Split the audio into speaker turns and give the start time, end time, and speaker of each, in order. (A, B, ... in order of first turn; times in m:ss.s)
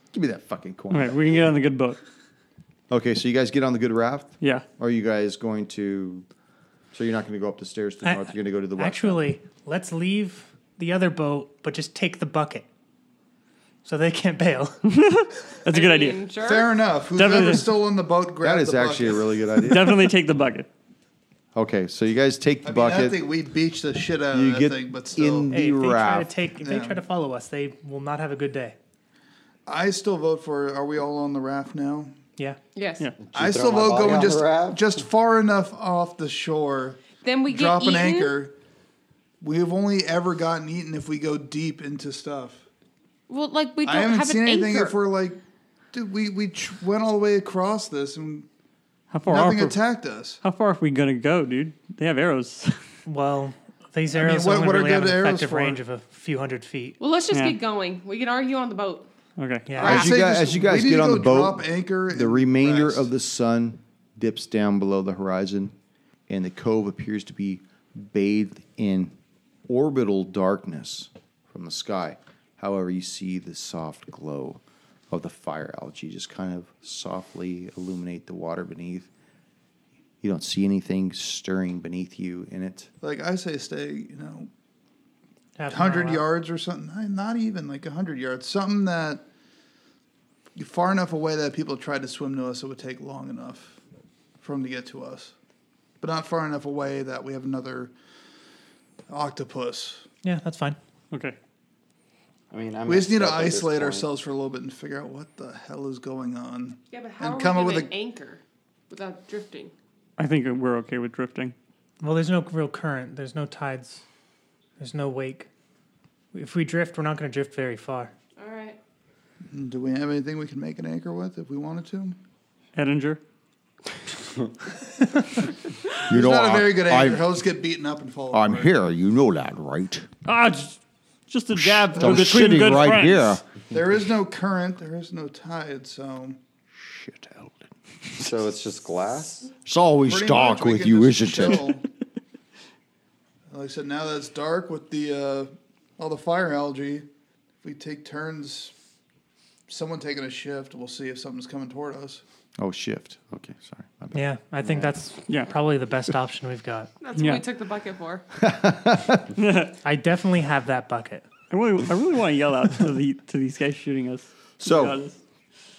0:00.1-0:01.4 A
0:00.9-0:02.0 B
0:02.9-0:06.2 A
0:06.9-0:09.2 A
0:08.0-0:12.6 C
0:13.8-0:14.8 C
0:14.8-0:16.2 B
0:15.7-0:16.9 D
0:16.4-0:19.4 E
0:17.1-0:17.7 B
0:18.4-0:20.1 A
0:19.6-0:20.7 B
0:21.5-0:23.2 A
0:22.6-0:25.5 E
0:24.3-0:26.3 A
0:25.5-0:28.8 C
0:26.6-0:27.0 E
0:29.6-0:32.1 E
0:32.7-0:33.1 D
0:33.2-0:34.9 F
0:33.3-0:38.5 E
0:37.2-0:38.4 D
0:39.4-0:42.6 E
0:43.3-0:45.0 D
0:43.8-0:45.4 E
0:45.9-0:48.5 E
0:49.1-0:49.8 B
0:49.3-0:50.4 E
0:50.4-0:52.8 B
0:53.0-0:57.0 C
0:54.1-0:55.8 E
0:57.0-0:59.0 D
0:57.3-0:57.6 B
0:59.4-0:59.7 B
0:59.6-1:00.1 C
0:59.8-1:00.1 D
0:59.8-1:05.7 A
0:59.8-1:03.1 E
1:06.3-1:09.1 A
1:09.7-1:19.1 A
1:20.2-1:22.9 A
1:23.0-1:24.5 E
1:25.6-1:26.2 C
1:25.7-1:29.2 E
1:30.6-1:33.8 E
1:34.4-1:35.3 E
1:36.0-1:37.9 E
1:39.1-1:40.0 E
1:40.2-1:40.8 C
1:41.1-1:41.4 B
1:42.5-1:44.1 F
1:42.9-1:47.9 E
1:46.9-1:49.7 D
1:50.2-1:51.5 B
1:52.0-1:54.0 C
1:54.8-1:55.5 C
1:56.3-1:58.1 C
1:58.4-1:58.8 D
1:59.5-2:02.2 E
2:02.7-2:03.2 B
2:06.1-2:07.3 A
2:06.1-2:08.7 E
2:08.3-2:10.1 A
2:10.2-2:13.4 B
2:11.5-2:13.4 A
2:13.7-2:16.4 E
2:16.7-2:18.2 A
2:18.2-2:19.5 F
2:19.6-2:21.8 A
2:20.1-2:21.8 E
2:23.5-2:27.1 E
2:27.6-2:28.7 E
2:29.7-2:32.2 E
2:32.6-2:34.2 A
2:34.1-2:36.9 C
2:35.3-2:35.5 B
2:37.0-2:38.2 D
2:37.2-2:37.4 B
2:38.4-2:39.3 A
2:39.4-2:39.8 B
2:39.8-2:41.3 C
2:41.5-2:45.2 B
2:44.6-2:45.0 A